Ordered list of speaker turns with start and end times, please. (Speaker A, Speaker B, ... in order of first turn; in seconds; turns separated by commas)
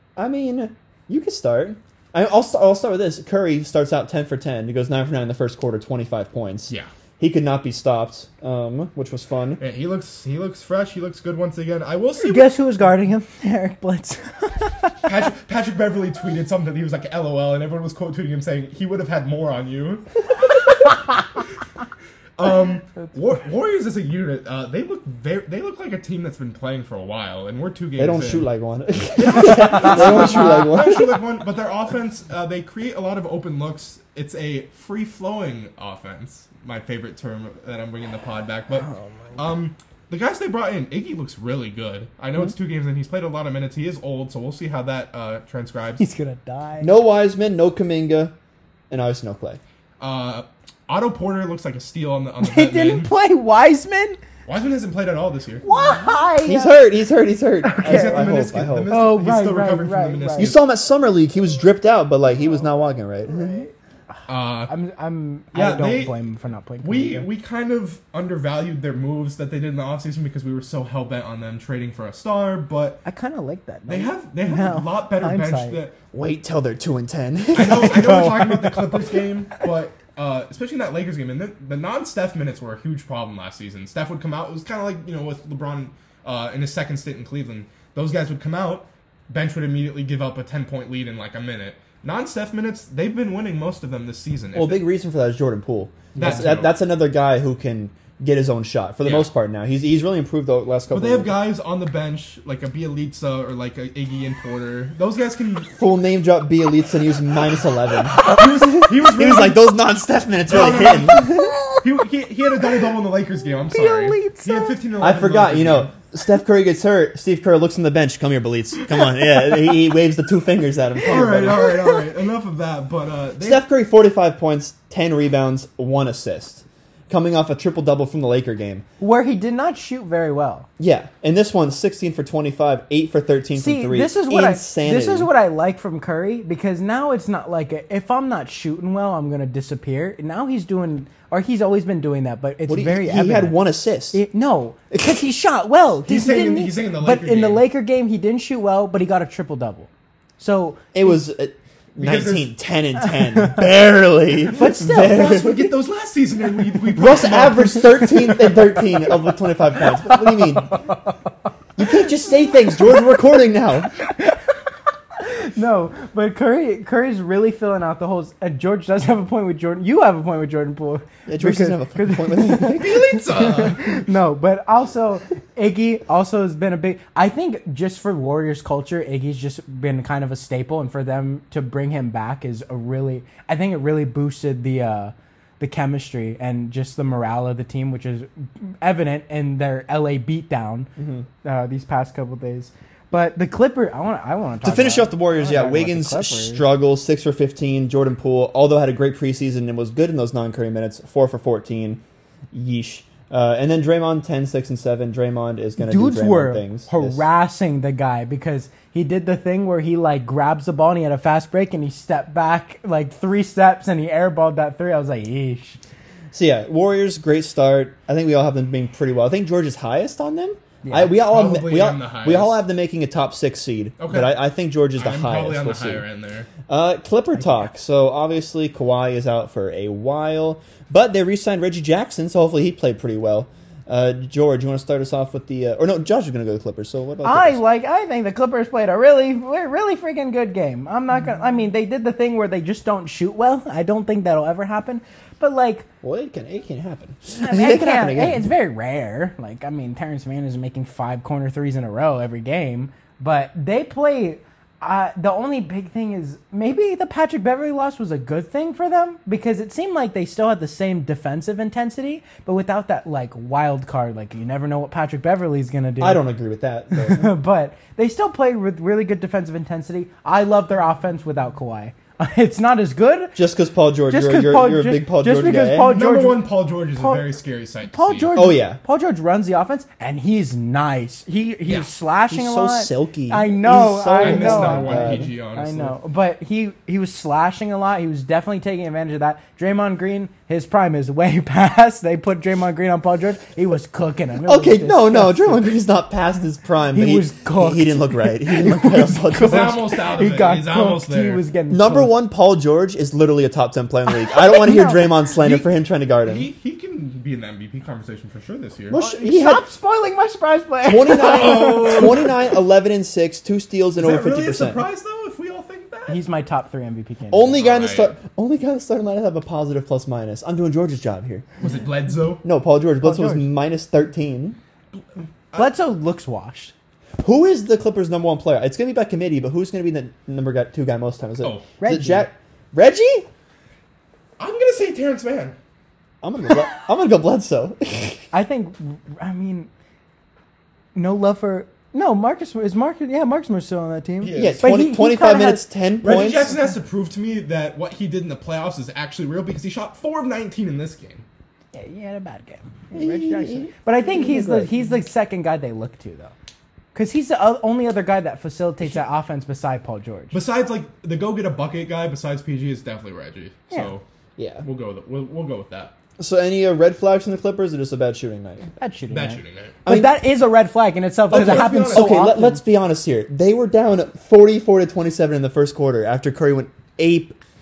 Speaker A: 0.1-9.6, Speaker B: 9.6-12.6, Speaker C: 12.2-14.9, Speaker B: 15.0-20.1, Speaker B: 22.4-28.5, Speaker A: 28.0-31.2, Speaker B: 29.2-46.0, Speaker C: 38.8-39.4, Speaker C: 46.0-46.9, Speaker A: 46.8-48.3, Speaker A: 48.9-49.6, Speaker B: 50.0-53.1, Speaker C: 52.4-54.2, Speaker B: 54.5-55.6, Speaker C: 55.6-56.8, Speaker A: 56.4-59.0, Speaker C: 57.6-58.3, Speaker B: 57.8-60.6, Speaker C: 58.9-60.5, Speaker A: 60.4-63.6, Speaker C: 63.3-63.7, Speaker B: 64.3-64.7, Speaker C: 64.7-67.2, Speaker B: 65.5-66.2, Speaker B: 66.8-73.0, Speaker C: 73.0-75.8, Speaker B: 73.9-75.9, Speaker A: 76.1-78.3, Speaker B: 77.5-94.8, Speaker C: 77.6-79.1, Speaker A: 94.5-101.4, Speaker B: 96.2-96.8, Speaker B: 99.0-99.3, Speaker B: 100.9-105.7, Speaker A: 105.8-111.5, Speaker B: 108.1-109.7, Speaker B: 110.5-115.9, Speaker C: 111.1-111.8, Speaker C: 113.5-114.8, Speaker A: 115.0-121.7, Speaker B: 121.1-123.6, Speaker A: 123.4-128.8, Speaker C: 129.0-130.7, Speaker A: 130.8-135.3, Speaker C: 133.5-143.6, Speaker A: 142.7-144.2, Speaker C: 144.1-151.1, Speaker B: 146.1-147.6, Speaker A: 150.9-155.7, Speaker B: 152.0-152.5, Speaker C: 153.1-153.6, Speaker C: 154.5-155.4, Speaker B: 154.9-158.3, Speaker A: 156.9-160.9, Speaker C: 160.1-160.9, Speaker A: 161.8-163.9, Speaker C: 165.2-190.9, Speaker A: 171.3-173.0, Speaker B: 172.7-173.9, Speaker A: 191.0-191.2, Speaker C: 191.4-196.6, Speaker A: 194.6-202.0, Speaker A: 202.5-207.2, Speaker C: 205.8-215.8, Speaker A: 216.3-226.0, Speaker C: 220.8-221.2, Speaker B: 221.2-222.6, Speaker B: 224.0-224.4, Speaker B: 225.0-226.5, Speaker A: 226.7-237.6, Speaker C: 237.2-245.9, Speaker A: 246.0-248.5, Speaker C: 247.4-266.2, Speaker A: 266.0-267.3, Speaker C: 266.9-273.4, Speaker A: 273.4-276.0, Speaker C: 274.1-276.4, Speaker B: 275.9-278.4, Speaker C: 276.9-277.3, Speaker C: 277.9-295.7, Speaker A: 278.3-278.8, Speaker A: 282.3-285.3, Speaker B: 284.2-285.9, Speaker A: 294.4-299.9, Speaker C: 296.9-302.1, Speaker B: 299.4-301.4, Speaker A: 301.7-306.5, Speaker C: 304.3-305.2, Speaker B: 305.4-305.7, Speaker B: 306.2-309.0, Speaker A: 308.9-309.6, Speaker C: 308.9-312.1, Speaker A: 310.9-314.8, Speaker B: 311.2-312.3, Speaker B: 314.0-316.2, Speaker C: 316.1-317.6, Speaker A: 317.3-321.4, Speaker B: 317.6-318.1, Speaker B: 321.6-322.4, Speaker A: 322.4-324.6, Speaker C: 323.0-323.5, Speaker B: 324.9-325.7, Speaker C: 325.5-326.7, Speaker A: 327.2-333.3, Speaker B: 331.4-331.7, Speaker C: 331.8-332.3, Speaker B: 334.4-335.6, Speaker A: 336.2-338.3, Speaker C: 338.3-339.7, Speaker C: 340.9-345.6, Speaker B: 344.2-344.6, Speaker A: 344.3-346.5, Speaker B: 346.0-351.2, Speaker C: 351.7-356.3, Speaker A: 352.9-354.7, Speaker C: 356.9-360.4, Speaker B: 360.3-364.0, Speaker A: 364.4-364.6, Speaker B: 364.6-365.9, Speaker A: 366.2-368.7, Speaker C: 368.8-372.6, Speaker B: 369.1-369.8, Speaker A: 369.8-370.2, Speaker B: 371.3-372.1, Speaker A: 371.3-377.4